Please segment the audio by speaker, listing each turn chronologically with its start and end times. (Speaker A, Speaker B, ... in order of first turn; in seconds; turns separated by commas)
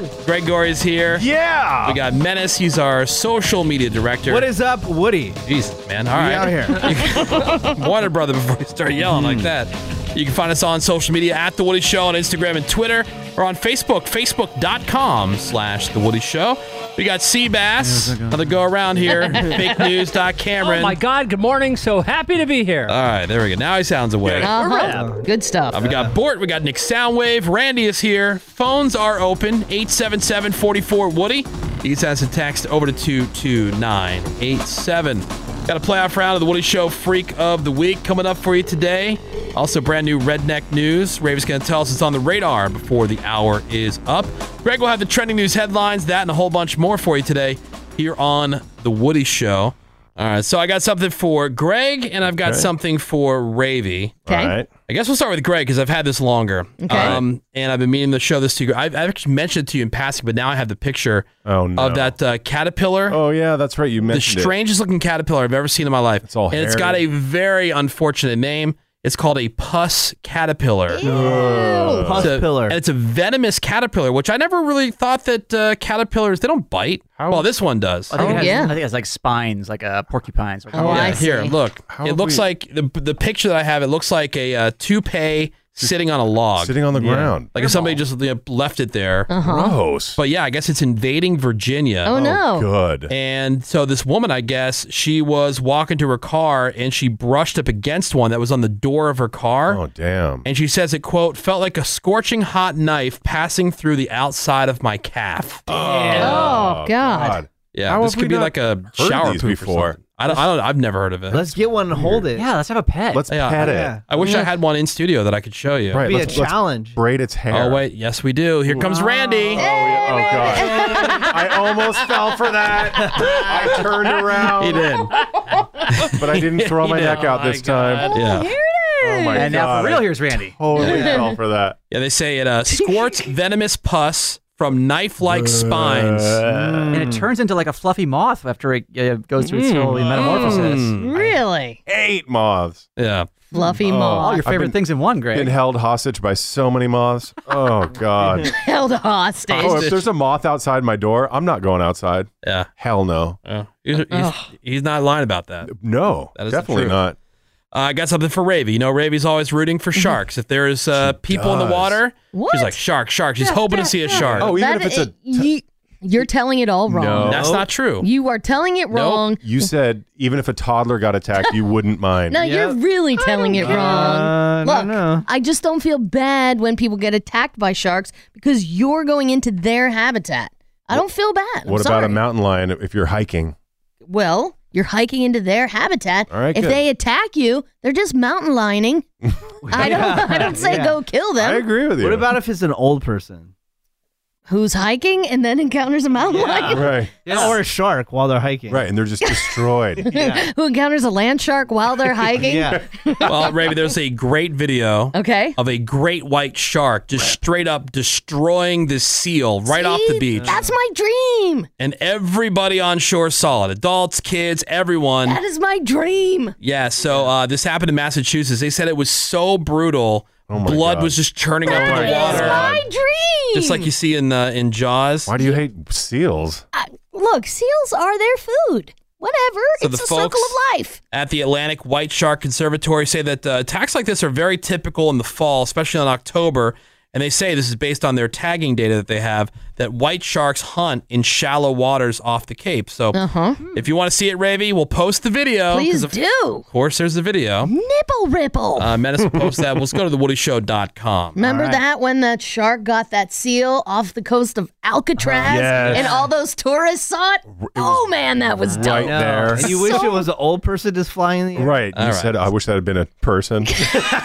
Speaker A: 0.2-1.3, Speaker B: 1.1-2.0, Speaker A: 1.8-4.5, Speaker C: 4.3-5.4, Speaker A: 5.5-21.0, Speaker C: 6.1-6.9, Speaker D: 17.8-18.6, Speaker E: 19.1-19.6, Speaker F: 20.6-22.9, Speaker A: 22.9-24.5, Speaker E: 24.4-25.8, Speaker F: 24.4-25.1, Speaker C: 24.8-25.2, Speaker A: 25.7-54.2, Speaker C: 25.8-26.1, Speaker B: 52.3-52.7, Speaker B: 54.3-54.7, Speaker E: 54.3-54.5, Speaker A: 54.9-63.2, Speaker E: 56.8-57.2, Speaker B: 56.9-57.2, Speaker B: 61.5-62.1, Speaker B: 63.1-64.5, Speaker A: 64.1-71.0, Speaker B: 66.2-67.0, Speaker E: 70.9-72.1, Speaker B: 71.0-72.3, Speaker C: 71.0-72.8, Speaker A: 72.2-78.2, Speaker B: 77.2-77.5, Speaker D: 78.1-81.2, Speaker E: 78.2-78.8, Speaker E: 80.7-81.5, Speaker A: 80.9-86.8, Speaker B: 81.9-82.4, Speaker B: 86.6-87.6, Speaker C: 87.0-87.4, Speaker A: 87.5-89.3, Speaker E: 89.3-89.8, Speaker B: 89.4-90.2, Speaker A: 90.2-92.1, Speaker E: 92.1-92.7, Speaker B: 92.1-93.1, Speaker A: 93.1-99.8, Speaker B: 99.7-100.5, Speaker A: 100.4-105.6, Speaker B: 105.7-110.0, Speaker C: 105.7-106.6, Speaker E: 106.2-107.4, Speaker A: 107.7-111.5, Speaker C: 111.3-112.5, Speaker B: 111.9-112.3, Speaker D: 112.3-113.2, Speaker B: 113.1-114.0, Speaker A: 113.3-116.3, Speaker C: 113.6-114.0, Speaker E: 114.2-114.5, Speaker B: 115.9-117.8, Speaker C: 116.0-117.0, Speaker A: 117.5-119.6, Speaker C: 119.2-119.5, Speaker B: 119.4-125.0, Speaker E: 119.6-121.5, Speaker A: 124.6-125.1, Speaker A: 125.9-127.3, Speaker B: 126.1-128.2, Speaker F: 126.8-128.2, Speaker E: 128.1-129.5, Speaker A: 128.1-128.5, Speaker B: 129.0-131.8, Speaker D: 129.3-130.6, Speaker A: 130.8-131.1, Speaker E: 130.8-131.2, Speaker C: 130.8-131.2, Speaker A: 131.9-136.4, Speaker E: 132.7-133.2, Speaker B: 135.2-137.0, Speaker C: 136.4-137.3, Speaker D: 136.9-141.0, Speaker F: 139.4-140.5, Speaker C: 140.0-140.6, Speaker A: 140.3-141.1, Speaker E: 141.0-141.8, Speaker B: 141.9-142.9, Speaker A: 143.0-143.3, Speaker E: 143.5-144.4, Speaker B: 143.8-144.8, Speaker D: 144.2-145.5, Speaker B: 145.3-148.5, Speaker E: 148.4-149.9, Speaker A: 149.5-150.1, Speaker B: 149.6-153.4, Speaker A: 152.4-152.7, Speaker A: 153.5-155.7, Speaker E: 154.1-154.5, Speaker B: 155.7-157.2, Speaker A: 156.4-157.0, Speaker A: 157.7-164.5, Speaker B: 160.9-162.0, Speaker E: 162.3-162.8, Speaker E: 163.4-167.3, Speaker B: 164.2-165.5, Speaker B: 166.9-167.5, Speaker C: 167.2-167.6, Speaker A: 167.2-168.1, Speaker E: 168.0-169.7, Speaker A: 168.9-169.2, Speaker B: 169.4-172.4, Speaker E: 172.3-182.2, Speaker C: 172.4-175.3, Speaker B: 173.6-174.1, Speaker B: 181.7-183.6, Speaker E: 184.1-189.0, Speaker B: 186.3-186.8, Speaker C: 189.6-191.0, Speaker E: 189.7-191.6, Speaker B: 189.8-190.2, Speaker B: 191.4-192.3, Speaker C: 192.0-193.5, Speaker E: 194.5-197.5, Speaker C: 196.3-198.8, Speaker B: 196.7-197.5, Speaker B: 198.7-200.1, Speaker E: 200.1-203.2, Speaker C: 200.1-200.5, Speaker C: 202.3-202.8, Speaker A: 203.3-210.6, Speaker E: 205.1-205.6, Speaker E: 209.7-211.7, Speaker C: 210.3-210.8, Speaker A: 211.8-215.4, Speaker E: 215.3-216.6, Speaker A: 216.6-222.7, Speaker B: 220.5-222.8, Speaker E: 221.7-223.9, Speaker A: 223.5-225.3, Speaker B: 225.3-226.7, Speaker E: 226.7-231.0, Speaker A: 229.8-230.6, Speaker A: 231.1-243.2, Speaker E: 243.1-243.6, Speaker A: 243.7-246.2, Speaker E: 245.7-246.7, Speaker A: 246.7-247.7, Speaker E: 247.7-248.9, Speaker A: 248.8-251.4, Speaker B: 249.2-249.8, Speaker E: 251.4-260.2, Speaker C: 251.4-251.8, Speaker C: 255.2-256.2, Speaker B: 255.4-256.2, Speaker B: 257.5-260.0, Speaker C: 258.9-261.8, Speaker B: 261.6-263.8, Speaker A: 261.9-262.5